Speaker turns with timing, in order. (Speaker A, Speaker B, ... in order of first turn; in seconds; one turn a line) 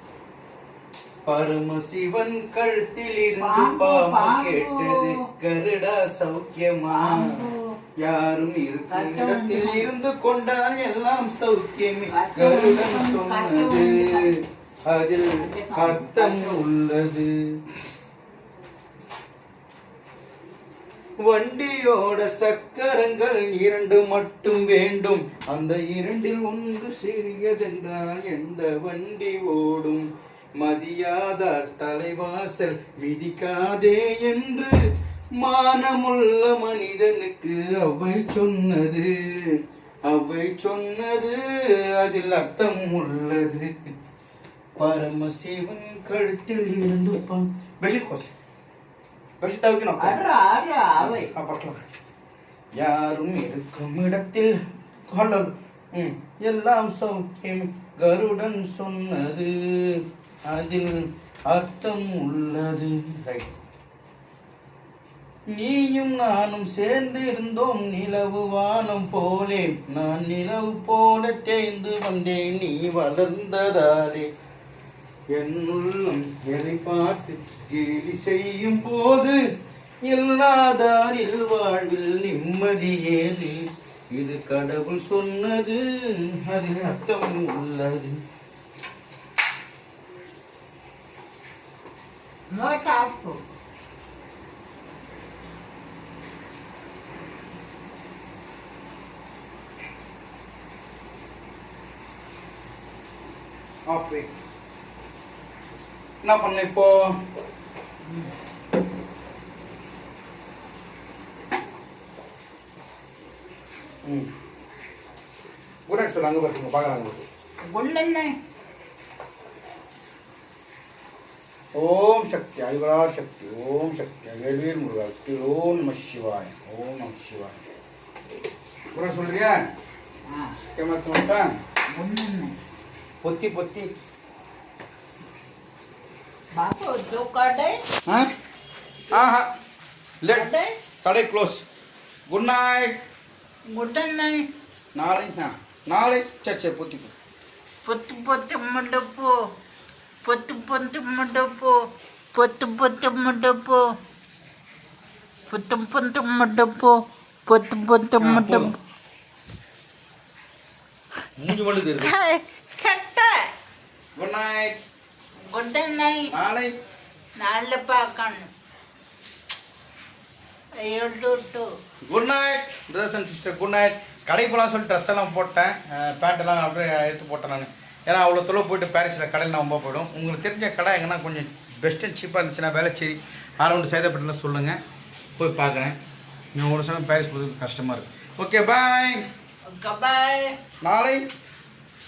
Speaker A: 1.2-7.4
Speaker B: 3.4-5.2
Speaker B: 6.9-7.7
Speaker A: 8.0-14.1
Speaker B: 8.9-9.9
Speaker B: 12.1-14.3
Speaker A: 14.9-17.3
Speaker B: 15.3-16.6
Speaker A: 21.3-30.1
Speaker A: 30.6-34.8
Speaker A: 35.4-43.9
Speaker A: 44.8-48.3
Speaker A: 49.4-50.2
Speaker B: 50.0-51.3
Speaker A: 51.0-51.8
Speaker A: 52.8-54.6
Speaker A: 55.1-63.5
Speaker A: 65.5-74.3
Speaker A: 75.3-79.4
Speaker A: 80.0-88.2
Speaker B: 92.5-93.4
Speaker A: 103.9-104.3
Speaker A: 106.2-107.1
Speaker A: 115.9-117.2
Speaker B: 117.6-118.3
Speaker A: 121.8-127.5
Speaker A: 128.9-129.6
Speaker B: 130.3-130.5
Speaker A: 130.8-131.5
Speaker B: 131.9-132.5
Speaker A: 133.2-133.9
Speaker B: 136.6-137.8
Speaker A: 139.1-139.4
Speaker A: 140.2-140.5
Speaker B: 140.3-140.7
Speaker A: 141.0-141.6
Speaker A: 142.3-143.0
Speaker B: 143.7-144.4
Speaker A: 144.9-147.1
Speaker B: 147.8-149.3
Speaker B: 150.2-151.7
Speaker B: 152.3-153.8
Speaker B: 155.5-158.7
Speaker A: 158.2-158.7
Speaker A: 161.4-162.1
Speaker B: 162.0-163.3
Speaker A: 164.2-164.8
Speaker B: 165.5-166.3
Speaker A: 166.3-166.7
Speaker B: 167.4-168.5
Speaker B: 170.8-171.7
Speaker A: 172.1-184.8
Speaker A: 185.4-186.0
Speaker A: 186.5-189.2
Speaker B: 189.7-190.5
Speaker A: 190.8-191.2